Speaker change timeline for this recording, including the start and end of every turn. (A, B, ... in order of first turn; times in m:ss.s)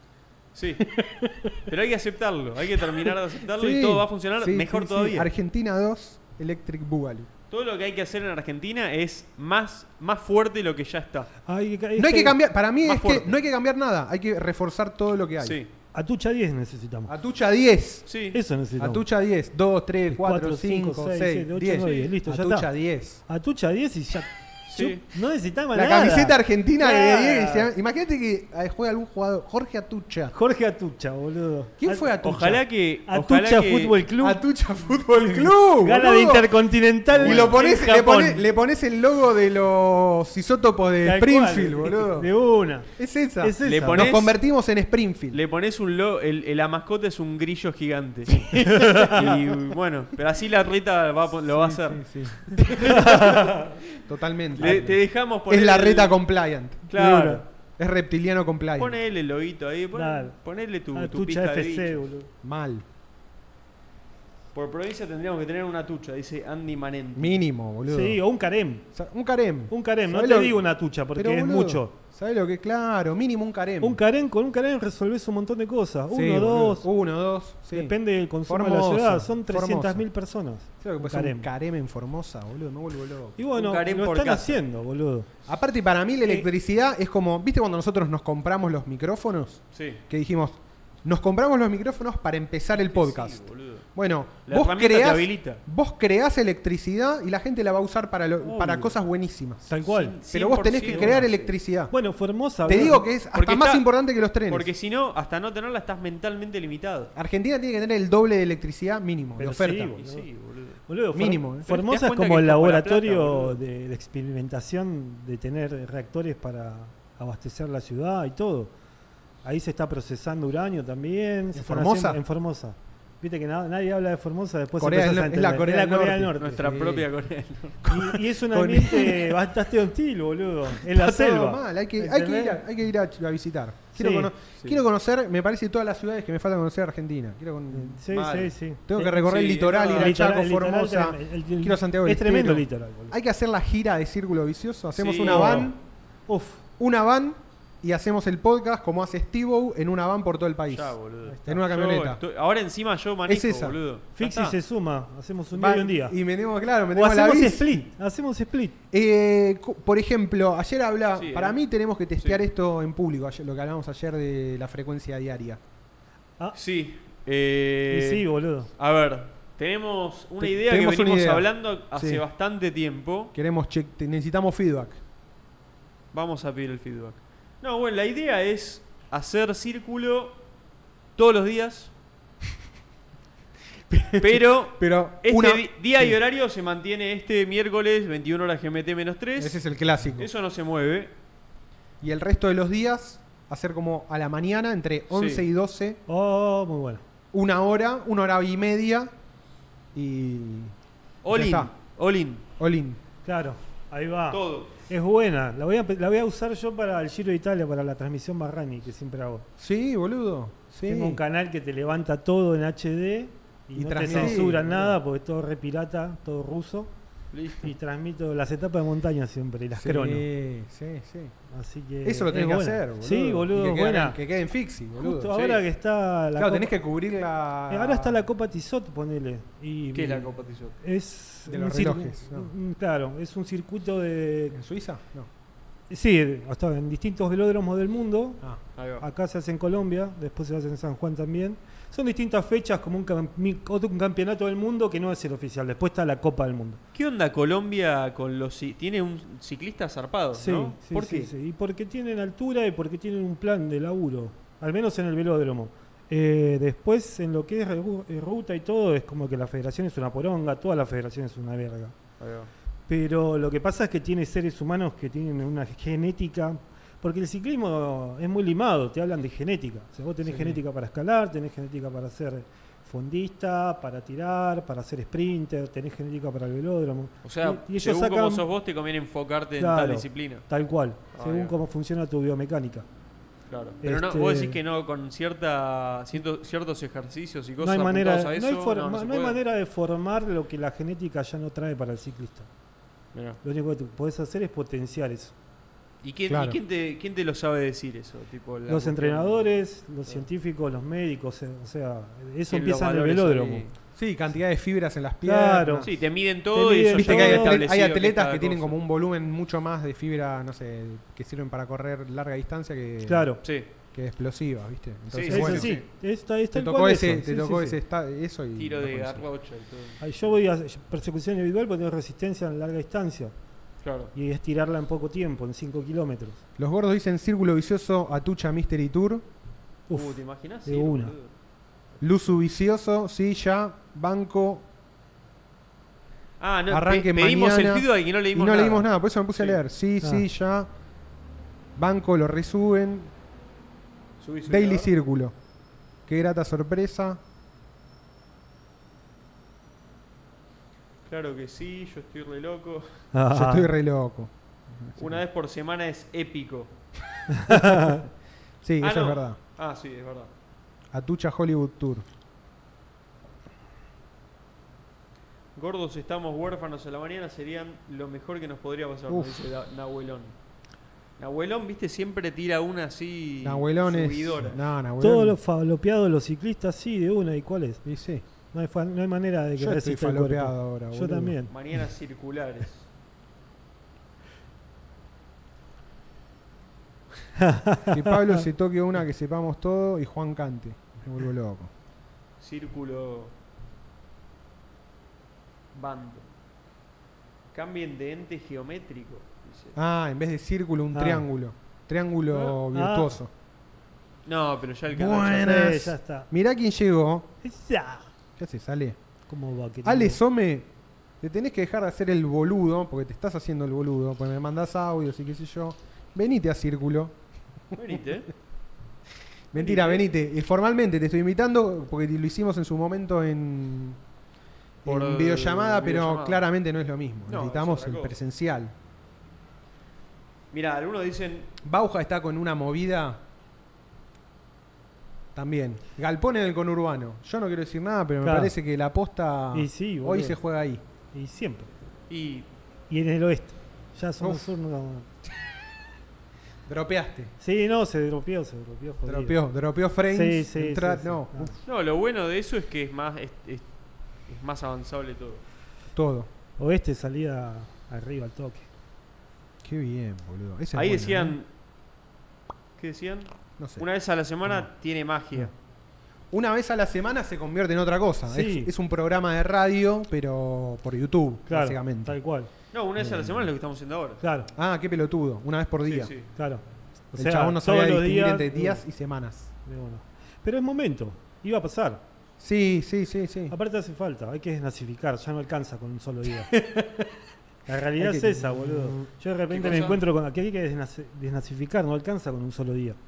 0:00.5-0:00.9 A
0:00.9-0:01.6 B
0:01.6-0:05.3 A
0:03.0-0:07.3 B
0:07.5-0:11.3 A
0:11.4-0:12.4 C
0:12.0-0:15.6 B
0:12.8-0:13.3 A
0:15.4-0:15.7 A
0:15.9-0:17.1 C
0:17.1-0:18.0 B
0:18.1-0:18.4 A
0:18.3-0:19.0 C
0:18.8-0:23.2 B
0:20.1-0:22.7 C
0:23.2-0:27.7 C
0:24.7-0:25.0 A
0:25.7-0:30.3 B
0:30.3-0:32.1 C
0:31.8-0:32.6 B
0:32.2-0:33.9 A
0:33.1-0:34.4 C
0:34.2-0:36.5 B
0:35.8-0:38.4 C
0:37.1-0:37.7 A
0:37.1-0:42.3 B
0:41.0-0:44.1 C
0:42.9-0:45.4 B
0:43.6-0:44.4 A
0:45.3-0:54.0 A
0:48.3-0:49.6 B
0:48.6-0:49.3 C
0:51.5-0:53.5 B
0:52.7-0:53.6 C
0:54.0-0:56.9 B
0:54.5-0:56.2 A
0:56.9-0:57.4 A
0:56.9-0:57.4 C
0:57.8-0:59.0 B
0:58.8-1:02.0 A
0:59.9-1:00.4 C
1:00.9-1:02.3 C
1:02.4-1:02.8 B
1:04.5-1:07.4 A
1:07.1-1:08.2 B
1:07.9-1:08.8 C
1:08.9-1:10.6 B
1:09.7-1:11.9 C
1:11.1-1:14.0 B
1:13.8-1:16.9 C
1:16.1-1:18.0 B
1:17.7-1:21.5 C
1:18.5-1:20.0 B
1:20.8-1:23.4 B
1:23.4-1:25.3 C
1:23.5-1:24.6 A
1:25.4-1:39.7 B
1:29.7-1:30.0 A
1:32.9-1:33.8 A
1:34.5-1:35.6 A
1:38.4-1:38.9 C
1:39.7-1:40.2 C
1:39.8-1:41.5 A
1:40.3-1:41.9 B
1:40.9-1:41.3 C
1:41.9-1:43.0 C
1:42.6-1:44.7 B
1:43.3-1:47.1 A
1:47.1-1:49.9 B
1:49.4-1:50.2 C
1:50.0-1:50.8 A
1:50.9-1:58.7 C
1:51.1-1:51.7 B
1:51.7-1:53.6 A
1:59.4-2:06.8 C
2:01.5-2:02.2 B
2:04.8-2:07.1 B
2:06.4-2:07.9 A
2:07.8-2:09.4 B
2:07.9-2:12.6 C
2:10.8-2:18.0 B
2:13.9-2:14.3 C
2:14.6-2:14.8 A
2:17.7-2:23.1 C
2:18.1-2:18.5 A
2:18.9-2:25.8 B
2:19.1-2:20.1 A
2:25.0-2:25.7 A
2:25.2-2:25.7 C
2:26.3-2:26.6 C
2:26.8-2:32.2 B
2:30.7-2:34.6 A
2:33.3-2:33.8 B
2:34.2-2:36.2 C
2:35.5-2:37.9 B
2:36.9-2:38.7 C
2:38.9-2:45.6 B
2:41.1-2:41.6 A
2:46.5-2:53.3 A
2:47.9-2:48.7 C
2:50.4-2:52.2 B
2:53.3-2:55.0 B
2:56.1-3:00.4 A
3:01.2-3:01.9 A
3:03.9-3:06.2 B
3:04.2-3:09.6 A
3:09.4-3:10.3 B
3:10.2-3:11.1 A
3:12.0-3:16.0 B
3:15.1-3:15.4 A
3:16.1-3:17.0 C
3:17.3-3:19.1 B
3:19.9-3:20.7 B
3:21.2-3:22.4 A
3:21.3-3:21.7 B
3:22.6-3:23.0 B
3:23.2-3:29.5 C
3:24.3-3:24.7 A
3:29.6-3:31.2 B
3:30.8-3:36.9 C
3:33.7-3:35.0 B
3:34.1-3:34.4 A
3:37.3-3:37.7 A
3:37.6-3:40.3 C
3:39.7-3:41.3 B
3:41.5-3:44.2 C
3:42.0-3:45.4 B
3:45.0-3:46.7 C
3:45.3-3:45.6 A
3:46.4-3:48.2 B
3:47.7-3:54.6 C
3:49.9-3:50.8 A
3:51.4-3:52.5 B
3:54.5-3:55.3 B
3:55.9-3:58.4 C
3:58.8-3:59.0 A
3:59.0-4:06.8 C
4:06.9-4:11.3 A
4:10.4-4:22.0 C
4:22.2-4:22.5 A
4:22.9-4:38.4 C
4:30.2-4:30.6 A
4:37.2-4:40.4 A
4:39.6-4:42.9 C
4:41.1-4:41.5 A
4:43.5-4:49.4 A
4:43.8-4:44.6 C
4:47.6-4:52.5 C
4:53.1-4:53.4 A
4:53.4-4:55.3 C
4:56.0-4:59.4 A
4:56.3-4:56.6 B
4:58.7-5:03.6 C
5:02.5-5:03.7 A
5:03.9-5:05.9 B
5:05.2-5:05.9 C
5:05.8-5:08.8 A
5:06.5-5:07.6 C
5:06.9-5:13.3 B
5:13.0-5:13.4 C
5:13.4-5:13.7 A
5:13.9-5:15.8 B
5:15.1-5:15.8 A
5:15.3-5:17.8 C
5:16.5-5:19.2 B
5:18.6-5:20.4 A
5:20.0-5:23.3 C
5:23.8-5:24.1 A
5:24.1-5:26.4 C
5:26.6-5:29.3 B
5:29.9-5:31.1 C
5:29.9-5:31.3 A
5:32.0-5:34.6 B
5:36.4-5:39.6 A
5:36.7-5:40.7 B
5:41.8-5:43.1 B
5:44.2-5:44.9 A
5:44.5-5:45.3 B
5:46.1-5:47.2 B
5:51.0-5:53.0 A
5:53.1-5:53.7 C
5:53.3-5:55.2 B
5:55.0-5:56.7 A
5:57.3-5:58.0 C
5:58.6-5:59.4 B
5:58.8-6:00.3 A
6:00.9-6:02.0 B
6:05.5-6:10.3 A
6:09.1-6:09.3 B
6:11.2-6:14.6 A
6:13.4-6:15.4 B
6:15.0-6:17.8 C
6:17.8-6:18.2 B
6:18.5-6:21.5 C
6:19.6-6:21.4 B
6:21.5-6:22.9 A
6:27.4-6:28.1 C
6:27.9-6:31.7 B
6:32.4-6:33.3 A
6:35.7-6:36.3 A
6:37.5-6:39.8 A
6:39.7-6:43.3 B
6:40.9-6:41.3 C
6:42.4-6:43.1 C
6:44.2-6:45.7 A
6:44.9-6:47.3 B
6:45.3-6:46.3 C
6:47.4-6:48.1 C
6:48.4-6:49.0 B
6:49.3-6:50.2 C
6:49.8-6:50.7 B
6:51.2-6:57.2 B
6:57.7-6:58.3 A
6:59.5-7:04.0 B
6:59.5-7:00.1 A
7:04.8-7:08.7 B
7:04.8-7:06.4 A
7:07.3-7:08.2 A
7:10.5-7:11.5 A
7:11.6-7:13.2 B
7:15.3-7:20.8 B
7:18.2-7:18.5 C
7:19.5-7:20.4 C
7:21.1-7:21.7 C
7:22.1-7:22.5 A
7:22.9-7:25.1 C
7:24.2-7:24.5 B
7:26.7-7:27.3 B
7:27.4-7:29.4 C
7:29.0-7:31.6 B
7:30.1-7:31.5 C
7:31.6-7:33.6 A
7:34.2-7:35.4 A
7:35.9-7:36.3 B
7:36.6-7:38.7 C
7:39.6-7:41.4 B
7:40.7-7:41.5 A
7:42.8-7:45.5 A
7:43.6-7:43.8 B
7:46.3-7:52.2 B
7:48.3-7:48.7 C
7:51.5-7:52.5 C
7:52.7-7:54.2 A
7:53.0-7:53.5 B
7:54.2-7:54.5 C
7:54.5-7:56.1 B
7:55.8-7:56.3 A
7:56.4-7:58.8 C
7:57.1-7:59.5 B
7:59.6-8:02.0 C
8:02.4-8:03.5 B
8:03.5-8:06.5 C
8:06.5-8:07.2 B
8:07.7-8:13.0 C
8:08.0-8:09.1 B
8:09.5-8:10.0 A